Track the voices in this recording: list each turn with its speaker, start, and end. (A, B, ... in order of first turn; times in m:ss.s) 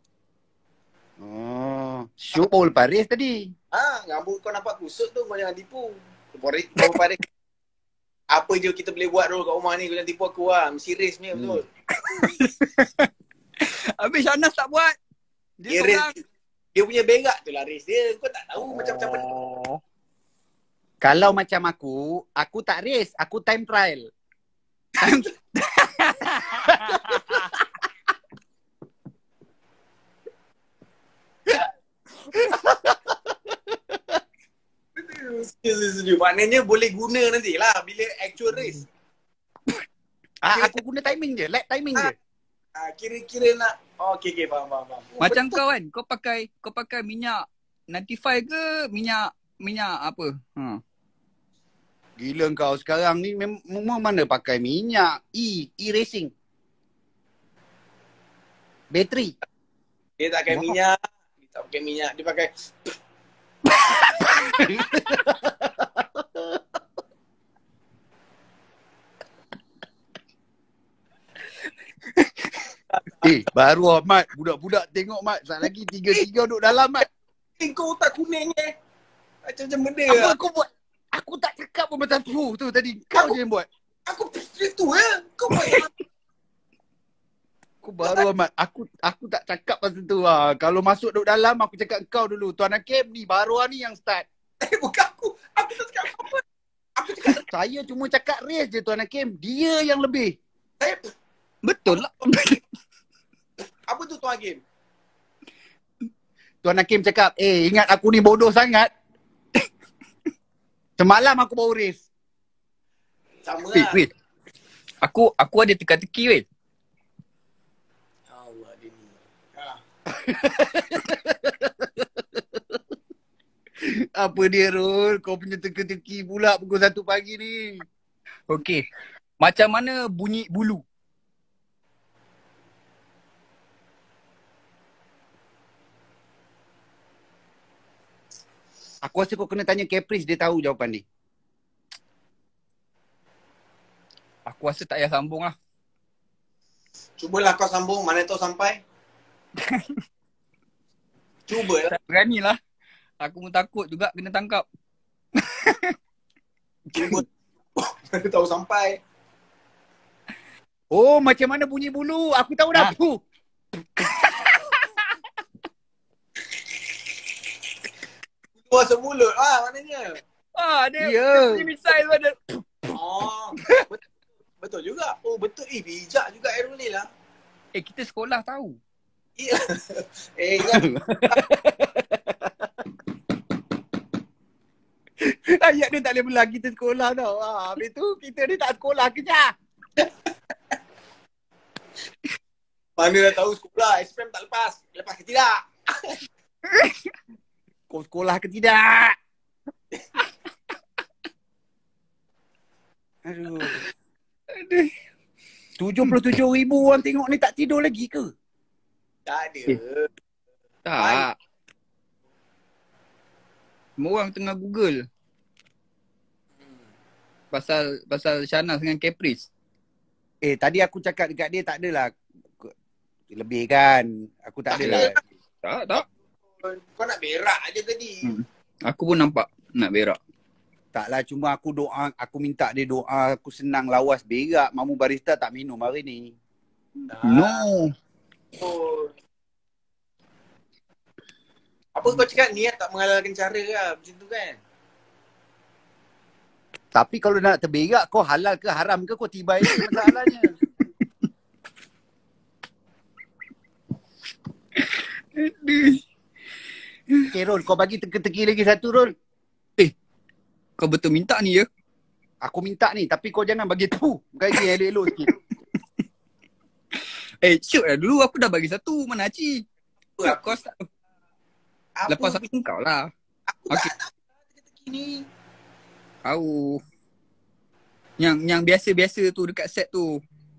0:01.2-0:03.5 A
0:03.7-0:07.2 B
0:08.3-0:11.6 B
0:12.0-0:13.1 C
0:13.6-0:14.9 C
0:15.6-0:16.2 C
0:15.7-0:16.1 B
0:16.7-0:19.2 B
0:18.7-0:19.8 C
0:21.0-0:24.1 A
0:25.0-0:27.4 C
0:32.5-0:32.8 A
0:35.0-0:38.9 B
0:40.4-0:42.1 A
0:42.8-0:45.6 B
0:45.2-0:50.8 C
0:52.2-0:56.3 A
0:58.9-0:59.3 A
1:00.2-1:02.9 B
1:04.6-1:06.6 A
1:12.1-1:12.6 C
1:12.9-1:13.3 B
1:13.2-1:17.0 A
1:17.6-1:18.7 B
1:19.4-1:20.3 B
1:20.1-1:23.7 A
1:24.1-1:25.9 B
1:27.8-1:34.2 A
1:34.6-1:36.4 B
1:37.0-1:37.4 B
1:37.5-1:40.4 A
1:40.8-1:41.1 B
1:41.6-1:42.6 C
1:43.9-1:44.6 B
1:46.6-1:48.9 A
1:51.0-1:52.0 A
1:53.4-1:54.0 B
1:53.7-1:54.1 A
1:55.0-1:56.4 C
1:58.3-1:59.8 B
2:00.1-2:02.8 A
2:03.8-2:07.8 A
2:08.5-2:08.8 C
2:09.4-2:10.8 C
2:19.0-2:21.0 A
2:24.5-2:25.5 C
2:27.2-2:28.8 B
2:29.6-2:30.0 C
2:31.5-2:31.9 B
2:31.9-2:32.6 C
2:33.2-2:34.6 C
2:35.4-2:35.9 C
2:36.9-2:37.2 B
2:37.8-2:39.0 B
2:40.9-2:43.2 A
2:44.0-2:44.9 C
2:48.7-2:50.2 B
2:50.6-2:52.5 C
2:51.0-2:51.7 A
2:52.9-2:54.0 B
2:54.6-2:57.1 B
2:57.7-2:58.8 C
2:59.4-3:01.4 B
3:00.6-3:02.7 A
3:05.2-3:09.5 A
3:13.0-3:16.2 B
3:16.7-3:17.1 C
3:17.9-3:19.2 A
3:23.2-3:23.8 A
3:24.5-3:24.9 C
3:25.8-3:28.3 A
3:29.2-3:30.1 B
3:30.8-3:31.3 C
3:31.0-3:31.2 B
3:34.0-3:35.0 C
3:37.5-3:39.5 C
3:40.4-3:42.7 A
3:43.3-3:45.2 A
3:44.7-3:45.2 B
3:44.8-3:45.1 C
3:45.6-3:46.0 C
3:46.6-3:48.2 B
3:48.2-3:50.2 C
3:50.9-3:56.3 A
3:57.1-3:57.6 B
3:57.3-3:57.9 C
3:58.6-3:59.1 B
4:01.9-4:04.6 B
4:06.9-4:10.5 A
4:09.6-4:10.2 C
4:14.8-4:16.0 C
4:17.3-4:19.1 A
4:20.8-4:21.6 C
4:22.4-4:25.3 A
4:27.4-4:29.6 C
4:30.2-4:30.6 B
4:30.2-4:30.8 C
4:32.0-4:32.5 B
4:32.1-4:33.1 C
4:33.5-4:34.2 B
4:34.7-4:35.3 B
4:36.2-4:36.8 C
4:38.2-4:40.2 C